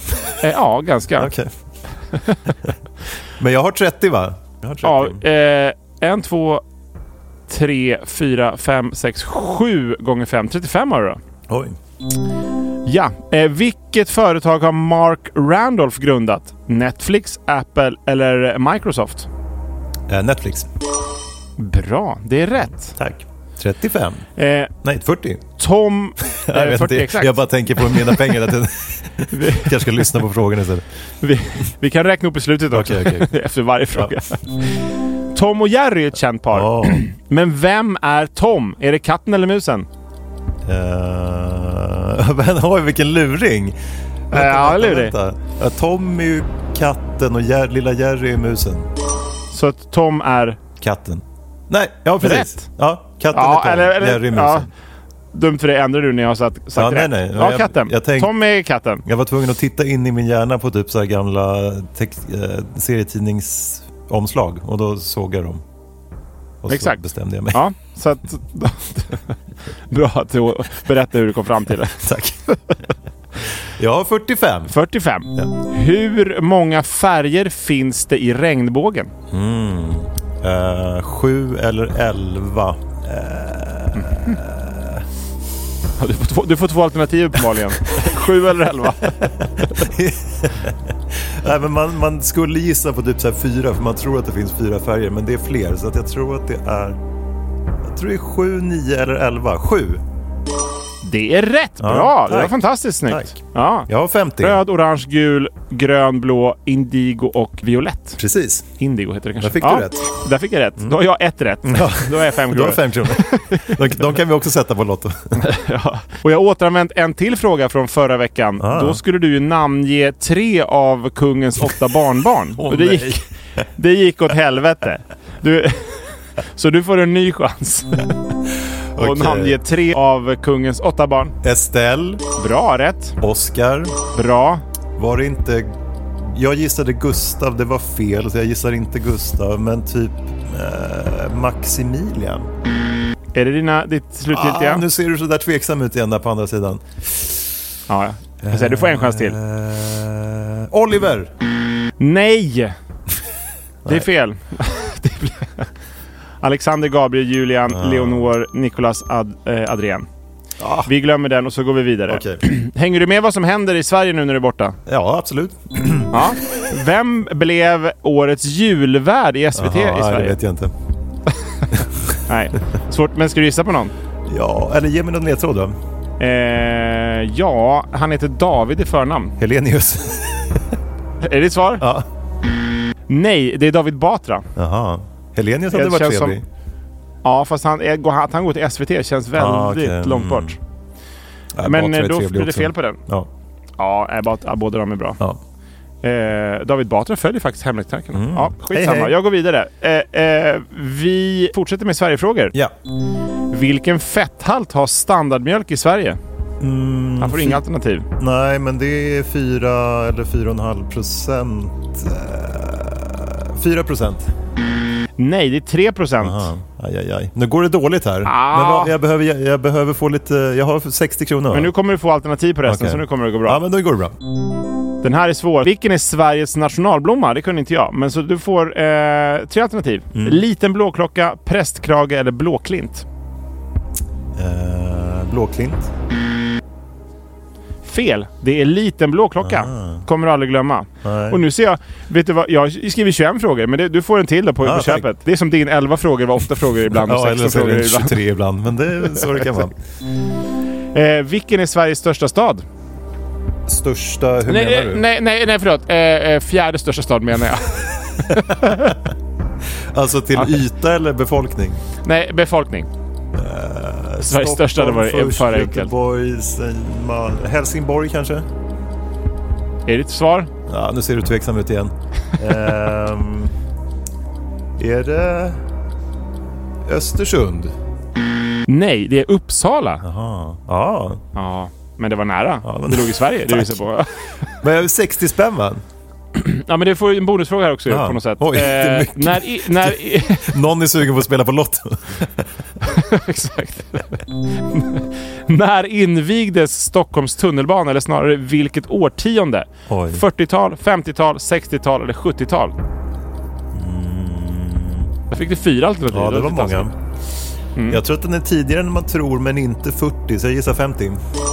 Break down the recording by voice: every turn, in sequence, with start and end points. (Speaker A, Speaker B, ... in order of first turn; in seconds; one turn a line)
Speaker A: 0.1-0.3
Speaker B: 0.4-1.3
Speaker A: 1.2-1.5
Speaker B: 2.1-2.4
Speaker A: 3.4-5.2
Speaker B: 4.8-6.6
Speaker B: 7.5-11.2
Speaker A: 11.5-11.8
Speaker B: 12.8-19.3
Speaker A: 20.1-20.7
Speaker B: 21.6-22.9
Speaker A: 22.9-24.3
Speaker B: 24.4-24.7
Speaker A: 24.8-25.4
Speaker B: 25.6-28.2
Speaker A: 26.2-30.8
Speaker B: 29.3-30.0
Speaker B: 31.2-39.9
Speaker A: 32.7-33.4
Speaker A: 33.9-34.2
Speaker A: 36.5-37.1
Speaker A: 40.6-43.8
Speaker A: 44.3-48.9
Speaker B: 44.3-45.1
Speaker B: 49.5-50.6
Speaker A: 50.8-54.7
Speaker B: 52.2-52.6
Speaker B: 53.3-54.7
Speaker B: 55.3-59.0
Speaker A: 56.7-58.3
Speaker A: 59.0-65.6
Speaker A: 66.6-67.6
Speaker B: 66.7-69.4
Speaker B: 69.9-72.0
Speaker A: 72.0-72.4
Speaker A: 73.8-74.7
Speaker B: 74.7-79.1
Speaker A: 79.3-85.0
Speaker B: 83.9-84.4
Speaker B: 86.0-89.8
Speaker A: 89.0-97.0
Speaker A: 97.8-100.0
Speaker B: 101.0-103.9
Speaker A: 101.8-104.6
Speaker B: 104.4-108.2
Speaker A: 108.2-108.7
Speaker B: 108.8-113.8
Speaker A: 109.4-110.1
Speaker A: 111.6-115.4
Speaker B: 115.3-123.2
Speaker A: 118.6-119.0
Speaker A: 122.6-123.2
Speaker B: 123.8-128.2
Speaker A: 128.9-129.6
Speaker B: 129.0-131.3
Speaker A: 131.4-132.2
Speaker B: 132.3-133.2
Speaker A: 133.2-133.9
Speaker B: 134.1-134.6
Speaker A: 135.0-142.5
Speaker B: 143.3-144.8
Speaker A: 144.3-147.5
Speaker B: 147.9-149.4
Speaker A: 148.4-151.3
Speaker B: 152.0-152.7
Speaker B: 153.9-155.7
Speaker B: 156.4-160.1
Speaker A: 157.7-158.3
Speaker A: 160.6-160.9
Speaker B: 160.8-164.8
Speaker A: 162.1-162.4
Speaker A: 164.8-166.2
Speaker B: 166.1-170.4
Speaker A: 169.6-170.7
Speaker A: 171.7-172.2
Speaker B: 172.3-173.9
Speaker A: 174.3-175.8
Speaker B: 176.2-179.3
Speaker A: 179.4-180.8
Speaker B: 181.2-181.8
Speaker A: 181.8-182.1
Speaker B: 183.1-184.5
Speaker A: 184.6-186.4
Speaker B: 185.7-186.4
Speaker B: 187.2-190.6
Speaker A: 189.3-190.6
Speaker A: 191.5-193.3
Speaker B: 191.6-193.0
Speaker B: 193.8-195.2
Speaker B: 196.0-202.5
Speaker A: 198.1-199.2
Speaker B: 203.5-206.2
Speaker A: 206.6-207.6
Speaker B: 207.2-208.1
Speaker A: 208.2-214.3
Speaker B: 215.2-216.5
Speaker A: 216.2-221.7
Speaker B: 218.2-218.9
Speaker B: 221.5-223.6
Speaker A: 222.6-224.2
Speaker B: 225.0-233.1
Speaker A: 230.1-230.4
Speaker A: 234.3-235.9
Speaker B: 237.8-248.2
Speaker A: 239.4-240.1
Speaker A: 241.0-241.4
Speaker A: 244.6-245.1
Speaker A: 246.9-249.7
Speaker B: 249.1-249.5
Speaker B: 250.9-252.6
Speaker A: 253.7-255.0
Speaker B: 254.5-259.0
Speaker A: 258.3-259.0
Speaker A: 259.9-261.8
Speaker B: 262.0-262.9
Speaker A: 263.3-268.5
Speaker B: 264.2-265.9
Speaker B: 269.9-270.5
Speaker A: 270.7-273.5
Speaker A: 274.8-275.6
Speaker A: 276.9-277.7
Speaker B: 278.7-280.0
Speaker A: 280.0-281.2
Speaker B: 281.3-284.5
Speaker A: 282.6-283.8
Speaker A: 284.6-285.8
Speaker B: 286.3-290.6
Speaker A: 287.9-292.5
Speaker B: 292.8-302.8
Speaker A: 299.9-300.2
Speaker A: 303.7-305.1
Speaker B: 305.3-306.9
Speaker A: 306.1-306.9
Speaker B: 307.8-308.0
Speaker A: 307.9-311.2